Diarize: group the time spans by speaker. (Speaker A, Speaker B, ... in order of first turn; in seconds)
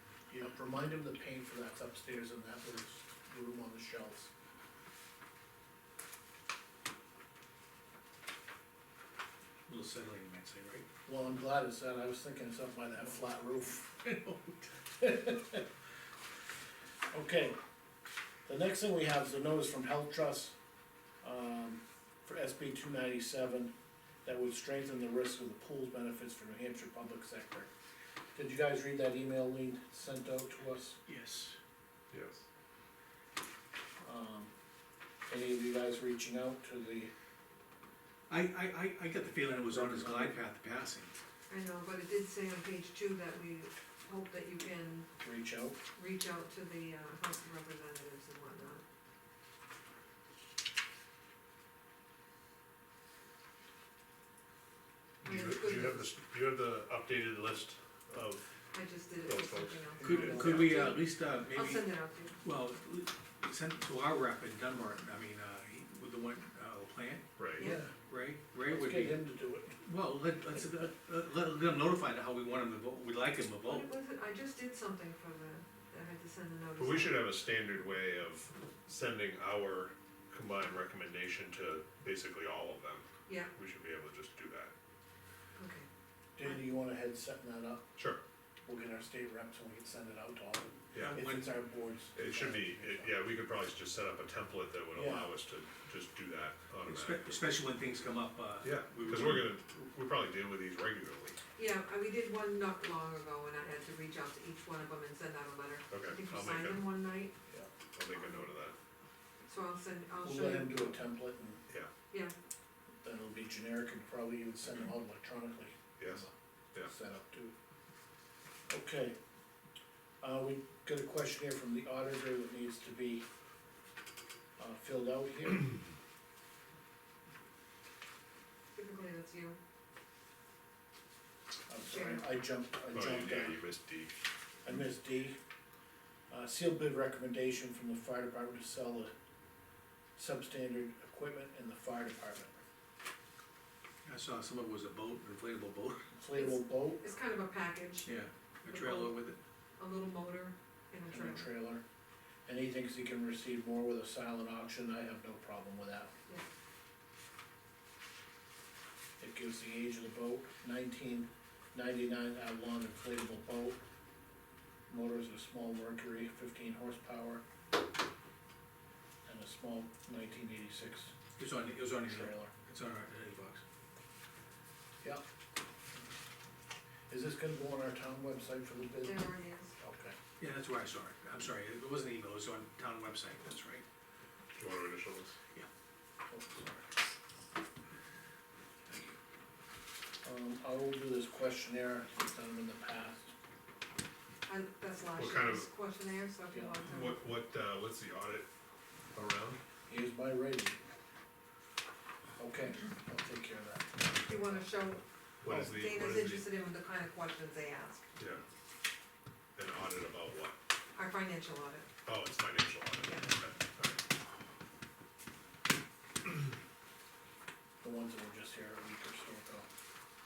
Speaker A: 0.3-4.3, 11.0-14.0, 15.0-15.6, 17.1-17.6, 18.4-20.5, 21.2-23.7, 24.2-27.7, 28.3-31.0, 34.0-34.5, 35.3-37.1, 39.5-40.4, 45.2-45.8, 60.0-61.0, 67.6-67.9, 68.5-69.8, 86.3-87.9, 88.6-93.1, 94.9-95.3, 110.2-111.6, 113.0-116.3, 116.8-117.5, 118.7-119.2, 120.2-123.2, 124.6-125.8, 131.7-133.6, 134.6-135.4, 136.3-139.1, 140.2-142.6, 146.1-147.0, 151.1-151.8, 152.4-156.1, 159.2-163.8, 164.9-167.4, 169.2-171.1, 172.0-172.5, 177.1-179.3, 179.8-180.1, 186.3-186.8, 190.2-193.3, 196.5-196.9, 199.9-200.8, 202.4-204.7, 205.4-205.7, 217.8-219.7
Speaker B: 9.7-10.9, 14.0-14.7, 31.1-31.6, 38.3-41.1, 60.0-61.9, 62.4-67.3, 67.9-69.2, 69.8-73.9, 91.0-91.5, 96.8-99.5, 144.0-146.1, 148.1-149.4, 171.4-173.6, 180.4-183.8, 188.9-189.1
Speaker C: 32.1-32.4, 55.2-58.5, 59.2-60.9, 67.4-67.7, 76.8-84.7, 88.0-88.2, 90.9-91.2, 92.1-97.4, 98.6-101.4, 105.9-106.8, 107.9-108.7, 116.0-116.9, 132.9-134.1, 184.5-185.3, 195.1-195.7, 196.9-198.5, 199.1-199.6, 205.4-206.4, 208.2-208.4, 209.6-210.6, 212.0-214.0
Speaker D: 41.5-45.1, 46.0-48.8, 55.2-56.1, 58.7-62.4, 67.6-67.8, 73.6-77.2, 83.2-83.5, 85.6-85.9, 101.5-107.3, 108.1-108.5, 109.4-111.0, 112.1-112.3, 128.7-129.6, 131.8-132.2, 146.3-148.1, 148.6-149.2, 149.8-151.5, 179.0-179.7, 194.4-197.2, 204.2-208.0, 210.9-211.9, 213.0-213.3